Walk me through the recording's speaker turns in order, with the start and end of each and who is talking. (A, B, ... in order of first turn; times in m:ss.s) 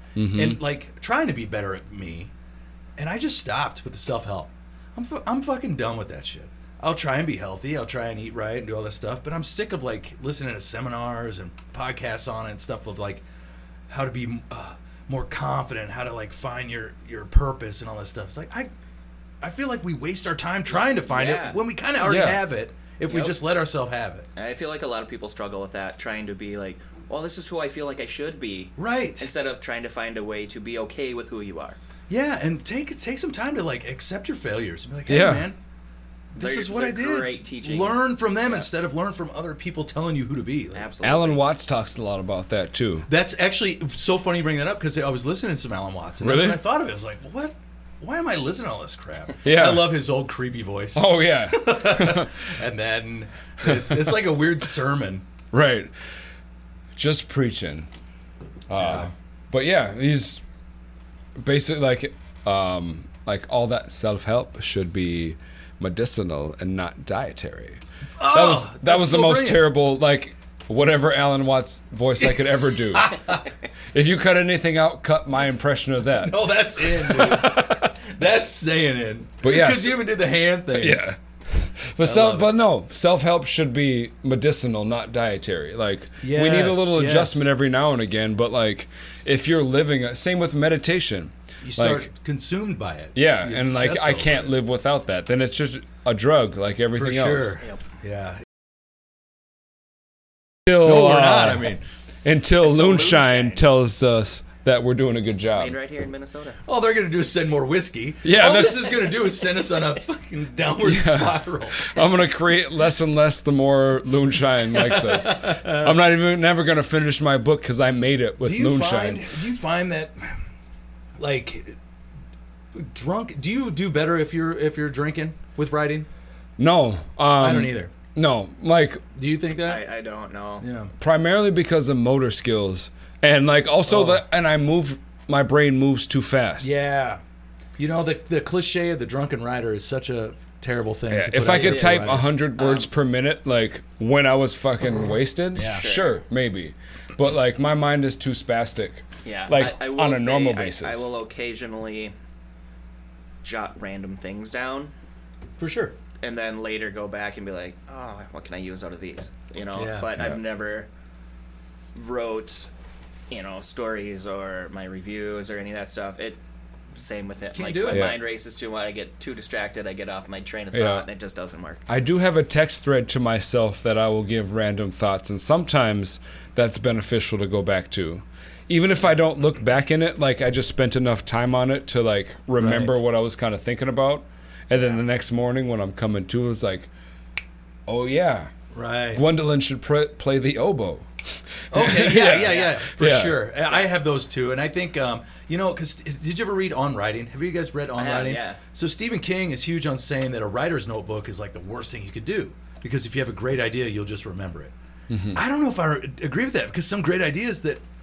0:00.2-0:00.6 A
0:00.3-0:02.3 B
0:03.0-0:13.2 B
0:13.9-0:18.7 B
0:19.4-0:24.3 B
0:20.7-0:21.6 C
0:22.0-0:22.4 A
0:23.1-0:23.4 C
0:24.4-0:31.8 C
0:28.8-0:29.3 B
0:32.1-0:35.6 B
0:35.1-0:35.5 A
0:36.3-0:40.9 B
0:36.4-0:38.7 C
0:40.7-0:41.4 C
0:41.0-0:43.1 A
0:43.1-0:55.2 B
0:46.2-0:46.6 A
0:49.4-0:49.9 A
0:50.9-0:52.3 A
0:53.6-0:54.3 A
0:55.5-0:55.9 A
0:57.0-0:57.9 A
0:58.7-1:00.4 A
0:58.7-0:59.1 B
1:01.4-1:07.8 A
1:08.2-1:09.7 B
1:08.3-1:13.2 A
1:12.2-1:13.4 B
1:13.9-1:17.9 A
1:16.2-1:21.0 B
1:19.4-1:20.0 A
1:20.7-1:32.1 A
1:22.0-1:22.5 B
1:26.2-1:27.5 B
1:31.6-1:34.5 B
1:33.1-1:37.6 A
1:36.9-1:38.4 B
1:40.7-1:41.7 A
1:40.7-1:41.8 B
1:42.2-1:45.8 A
1:42.6-1:43.6 C
1:45.5-1:46.6 C
1:46.6-1:51.9 B
1:48.2-1:49.1 A
1:50.8-1:59.3 A
1:54.7-1:55.9 B
1:58.4-2:00.4 B
2:01.2-2:01.8 B
2:02.7-2:06.1 B
2:06.6-2:09.0 A
2:07.4-2:07.9 B
2:09.1-2:09.8 B
2:09.6-2:10.6 C
2:10.6-2:10.9 B
2:11.0-2:16.7 A
2:13.9-2:14.2 B
2:16.6-2:17.2 B
2:17.8-2:22.3 B
2:21.1-2:31.1 A
2:21.4-2:22.9 C
2:25.5-2:25.8 B
2:25.6-2:26.2 C
2:29.2-2:32.1 C
2:33.4-2:34.9 C
2:35.6-2:35.9 B
2:36.2-2:40.9 C
2:39.7-2:40.2 B
2:41.9-2:42.7 C
2:43.3-2:46.4 C
2:46.9-2:51.8 C
2:47.5-2:48.1 B
2:47.9-2:48.2 A
2:50.7-2:51.0 A
2:51.9-3:06.9 A
3:02.6-3:03.0 B
3:07.9-3:08.5 A
3:08.7-3:09.2 B
3:09.1-3:11.1 A
3:11.7-3:13.4 A
3:11.7-3:24.7 B
3:18.0-3:18.6 C
3:25.1-3:25.4 A
3:25.3-3:27.8 B